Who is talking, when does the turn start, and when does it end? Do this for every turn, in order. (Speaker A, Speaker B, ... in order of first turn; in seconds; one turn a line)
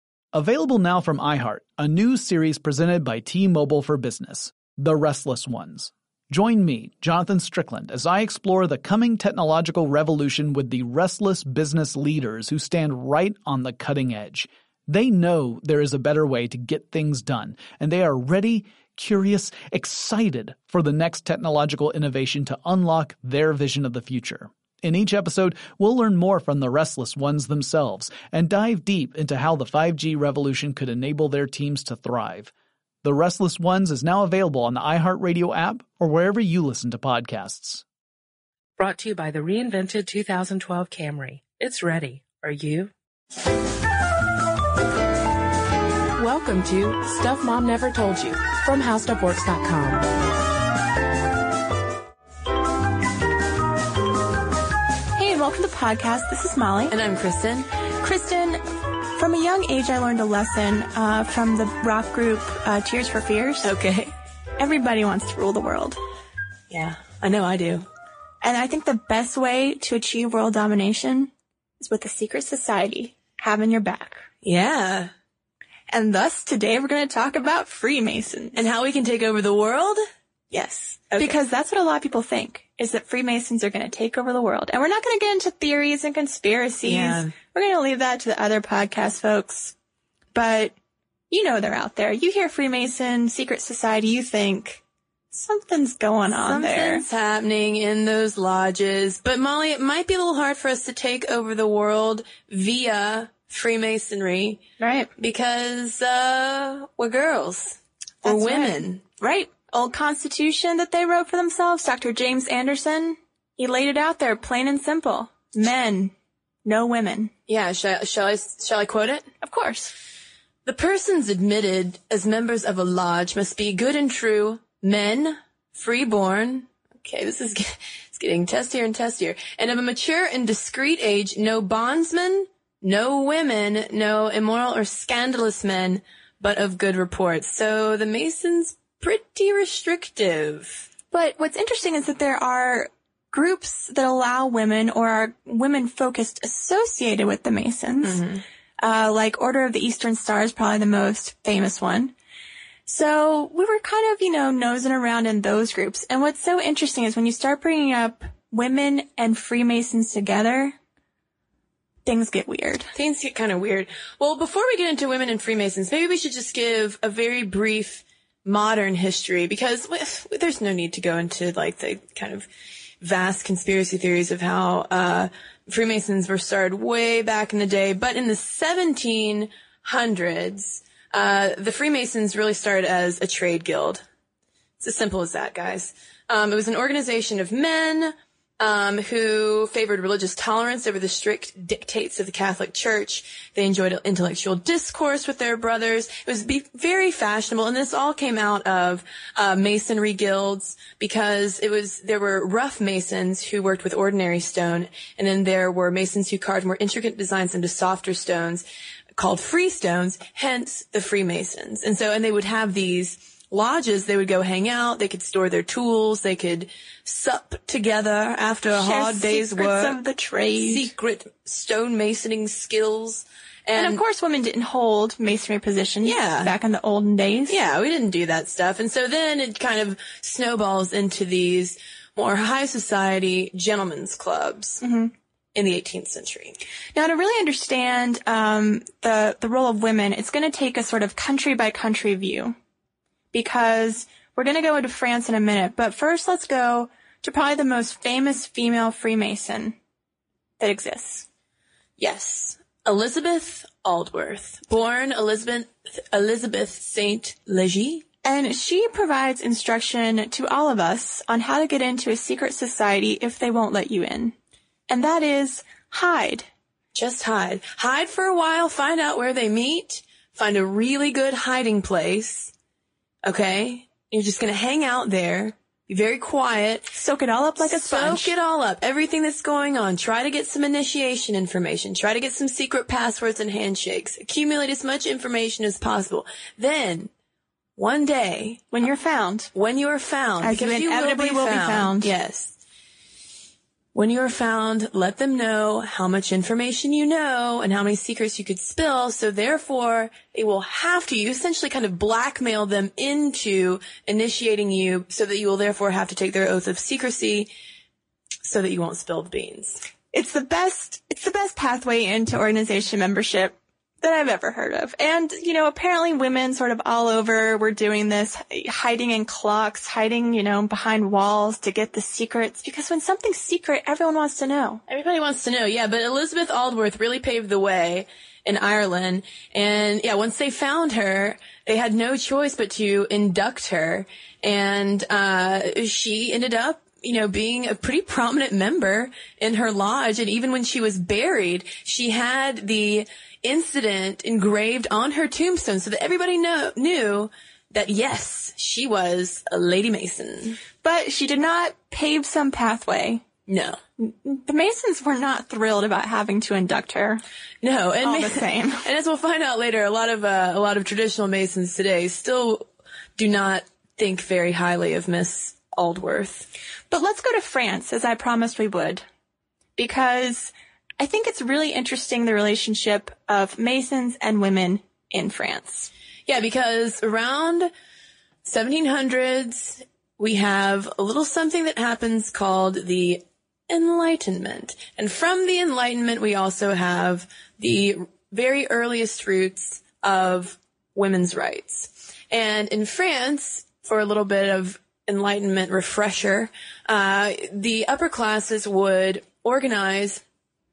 Speaker A: 0.3-32.5
Speaker A: 33.0-37.8
Speaker B: 38.8-42.9
Speaker B: 46.2-50.0
Speaker C: 55.1-57.0
Speaker D: 56.9-57.7
Speaker C: 58.0-58.6
Speaker C: 59.1-63.7
Speaker D: 63.6-64.1
Speaker C: 64.6-66.0
Speaker D: 66.7-67.8
Speaker C: 68.4-74.3
Speaker D: 74.4-75.1
Speaker C: 75.9-78.6
Speaker D: 78.5-80.0
Speaker C: 80.5-89.7
Speaker D: 81.1-81.4
Speaker D: 86.8-87.3
Speaker C: 90.3-90.7
Speaker C: 91.3-94.8
Speaker C: 95.3-97.0
Speaker D: 96.3-104.6
Speaker C: 104.8-105.1
Speaker D: 105.2-109.0
Speaker C: 108.2-116.1
Speaker C: 116.6-117.3
Speaker D: 117.5-119.3
Speaker C: 119.4-119.9
Speaker D: 120.7-140.8
Speaker C: 141.1-148.2
Speaker D: 148.0-148.4
Speaker C: 148.8-152.1
Speaker C: 152.9-160.7
Speaker C: 162.0-162.9
Speaker D: 162.9-172.4
Speaker D: 173.0-184.0
Speaker D: 184.8-208.6
Speaker D: 209.1-220.0
Speaker C: 218.7-220.9
Speaker D: 220.6-224.0
Speaker C: 223.7-227.6
Speaker D: 226.0-226.5
Speaker D: 227.5-234.8
Speaker C: 234.8-235.1
Speaker D: 235.5-236.6
Speaker C: 236.9-242.5
Speaker C: 243.3-249.7
Speaker C: 250.6-251.2
Speaker D: 252.0-258.0
Speaker C: 258.2-264.3
Speaker C: 264.9-266.5
Speaker D: 266.9-272.5
Speaker D: 273.2-276.9
Speaker C: 276.9-278.3
Speaker D: 277.6-287.1
Speaker D: 287.8-288.7
Speaker C: 288.7-289.5
Speaker D: 289.5-292.5
Speaker C: 290.4-292.1
Speaker D: 293.9-307.5
Speaker D: 308.4-309.8
Speaker C: 310.1-324.8
Speaker D: 324.9-350.6
Speaker C: 350.8-353.2
Speaker D: 353.5-353.8
Speaker C: 354.0-357.2
Speaker D: 357.6-362.6
Speaker C: 358.0-358.8
Speaker D: 363.1-366.5
Speaker C: 366.9-369.0
Speaker C: 369.8-375.9
Speaker D: 376.3-377.7
Speaker D: 378.4-400.2